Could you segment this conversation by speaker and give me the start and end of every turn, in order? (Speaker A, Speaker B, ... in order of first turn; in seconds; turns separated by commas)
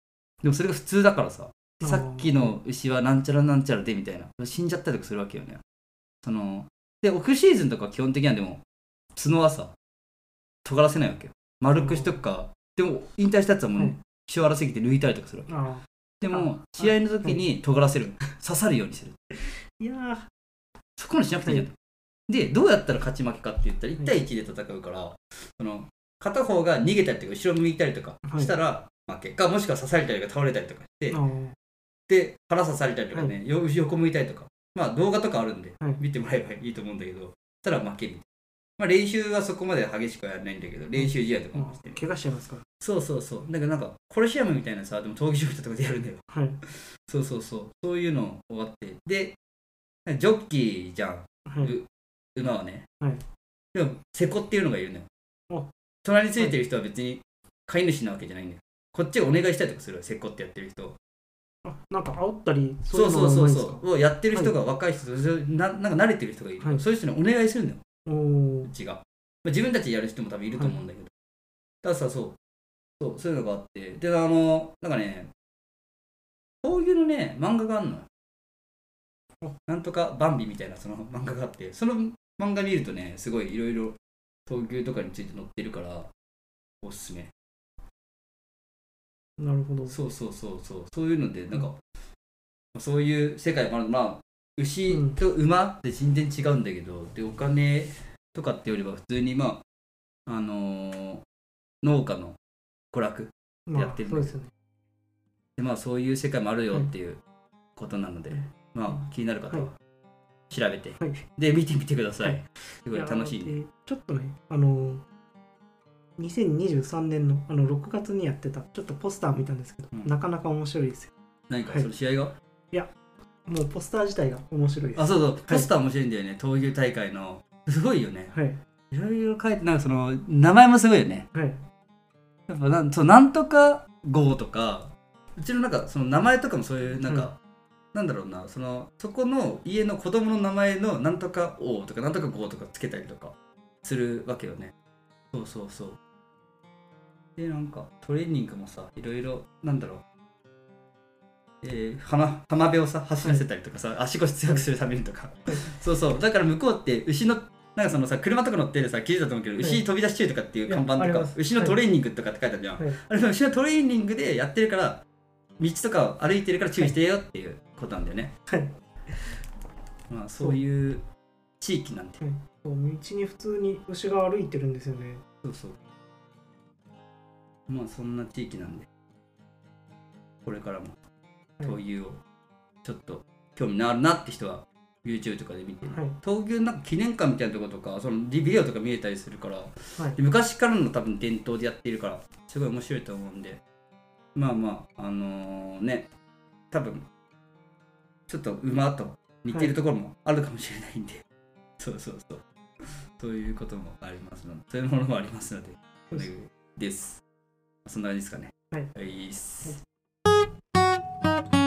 Speaker A: 0.4-5.6, Speaker B: 1.8-2.5, Speaker A: 6.2-8.6, Speaker A: 9.2-9.7, Speaker A: 10.7-15.5, Speaker B: 11.8-12.2, Speaker B: 15.5-17.4, Speaker A: 16.2-19.2, Speaker B: 19.7-20.3, Speaker A: 21.0-21.7, Speaker A: 22.3-31.2, Speaker B: 28.3-28.5, Speaker B: 31.1-31.6, Speaker A: 32.1-38.2, Speaker A: 38.8-42.0, Speaker B: 41.0-42.6, Speaker A: 42.8-49.4, Speaker B: 46.3-46.6, Speaker A: 50.1-52.9, Speaker B: 51.5-51.8, Speaker A: 53.7-55.1, Speaker A: 56.0-61.0, Speaker B: 61.6-64.5, Speaker A: 62.9-67.8, Speaker B: 68.1-68.7, Speaker A: 68.7-71.1, Speaker A: 71.8-72.4, Speaker A: 73.0-75.3, Speaker A: 76.6-78.1, Speaker A: 79.7-84.0, Speaker A: 84.5-86.1, Speaker A: 86.8-87.3, Speaker B: 89.4-90.0, Speaker A: 89.9-91.8, Speaker A: 92.7-99.6, Speaker B: 94.9-95.2, Speaker A: 100.3-101.2, Speaker A: 101.8-102.4, Speaker A: 102.9-104.4, Speaker B: 103.7-104.5, Speaker A: 105.6-107.2, Speaker A: 107.8-109.8, Speaker A: 110.5-113.6, Speaker B: 112.9-115.0, Speaker B: 116.2-121.1, Speaker A: 121.5-122.3, Speaker B: 123.5-125.7, Speaker A: 125.0-128.3, Speaker B: 128.3-128.6, Speaker A: 128.9-131.3, Speaker B: 131.3-131.6, Speaker A: 132.5-137.4, Speaker A: 137.9-144.7, Speaker A: 145.3-146.0, Speaker A: 147.4-150.0, Speaker A: 151.6-165.0, Speaker B: 160.7-161.8, Speaker A: 165.6-168.3, Speaker B: 168.5-169.4, Speaker A: 170.1-171.0, Speaker A: 171.6-172.2, Speaker B: 172.2-175.2, Speaker A: 175.4-175.8, Speaker A: 177.7-178.9, Speaker A: 180.4-181.0, Speaker A: 181.6-182.2, Speaker A: 182.8-193.6, Speaker B: 185.9-186.2, Speaker A: 194.3-196.1, Speaker A: 196.7-197.1, Speaker A: 198.3-201.2, Speaker A: 201.8-202.4, Speaker A: 203.2-207.2, Speaker A: 207.8-209.8